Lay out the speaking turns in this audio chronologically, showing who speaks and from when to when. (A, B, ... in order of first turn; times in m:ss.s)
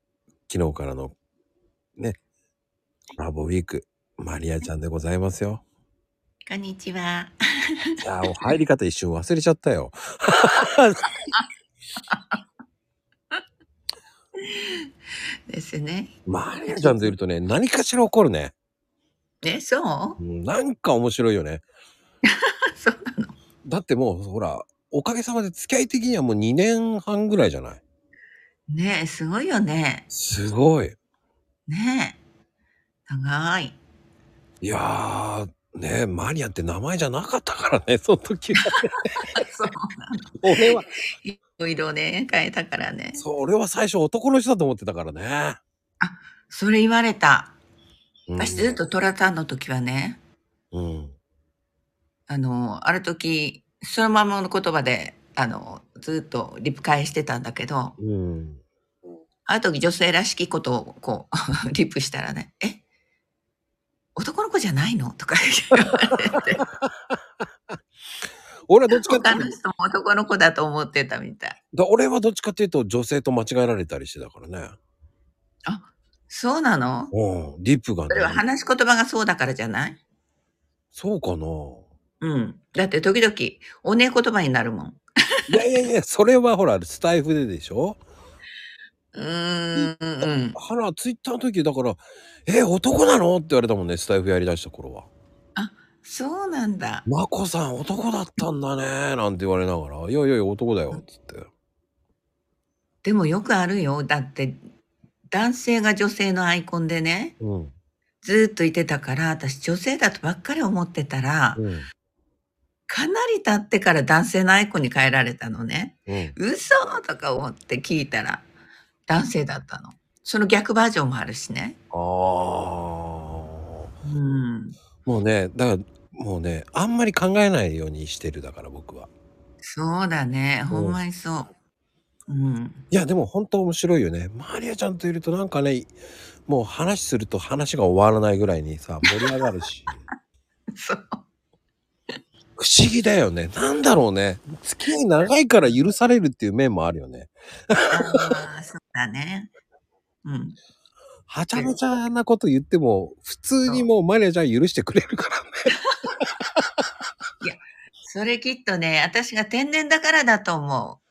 0:00.5-0:01.1 A
0:03.2-0:05.6 A
0:06.5-0:07.4 B
0:08.0-0:11.0 A
0:12.1-0:12.4 B
0:14.4-0:14.9 B
0:15.5-0:16.1 B
0:16.3-0:18.5 A
0:16.7-0:17.2 B
0:19.4-0:20.2 B
0:20.2-0:21.6 A
0:22.4-0:23.4 B
0:23.6-0:27.8 A
0:28.7-0:30.1 B
0:30.1-0:31.0 A
0:31.7-0:32.2 B
0:33.1-0:33.8 B
0:34.6-0:39.1 A
0:39.3-0:43.2 B
0:40.4-0:40.9 A
0:43.2-0:45.6 A
0:46.0-0:47.6 B
0:48.3-0:48.8 A
0:48.4-0:50.2 B
0:50.7-0:51.1 A
0:52.3-0:58.0 B
0:58.0-0:58.6 A
0:59.5-1:02.8 B
1:04.2-1:06.6 B
1:06.8-1:07.1 A
1:08.7-1:09.5 A
1:08.9-1:11.6 B
1:11.7-1:14.8 A
1:15.7-1:17.1 B
1:17.1-1:18.4 A
1:18.1-1:20.0 B
1:20.9-1:21.9 A
1:22.2-1:25.7 B
1:25.5-1:28.0 A
1:29.1-1:30.6 B
1:29.8-1:35.1 A
1:35.6-1:37.1 B
1:37.1-1:41.5 A
1:43.0-1:44.6 B
1:45.3-1:47.4 B
1:47.4-1:47.7 A
1:48.2-1:51.6 B
1:51.6-1:51.9 A
1:52.9-1:58.4 B
1:56.1-1:56.4 A
1:59.1-2:01.8 B
2:01.9-2:03.9 A
2:04.0-2:04.8 B
2:05.0-2:09.1 A
2:09.6-2:11.5 B
2:10.7-2:11.0 A
2:12.3-2:12.8 B
2:12.9-2:15.9 A
2:16.5-2:20.0 A
2:20.7-2:21.2 B
2:22.6-2:28.2 A
2:27.9-2:29.5 B
2:30.2-2:30.6 B
2:31.3-2:35.7 A
2:37.4-2:41.0 B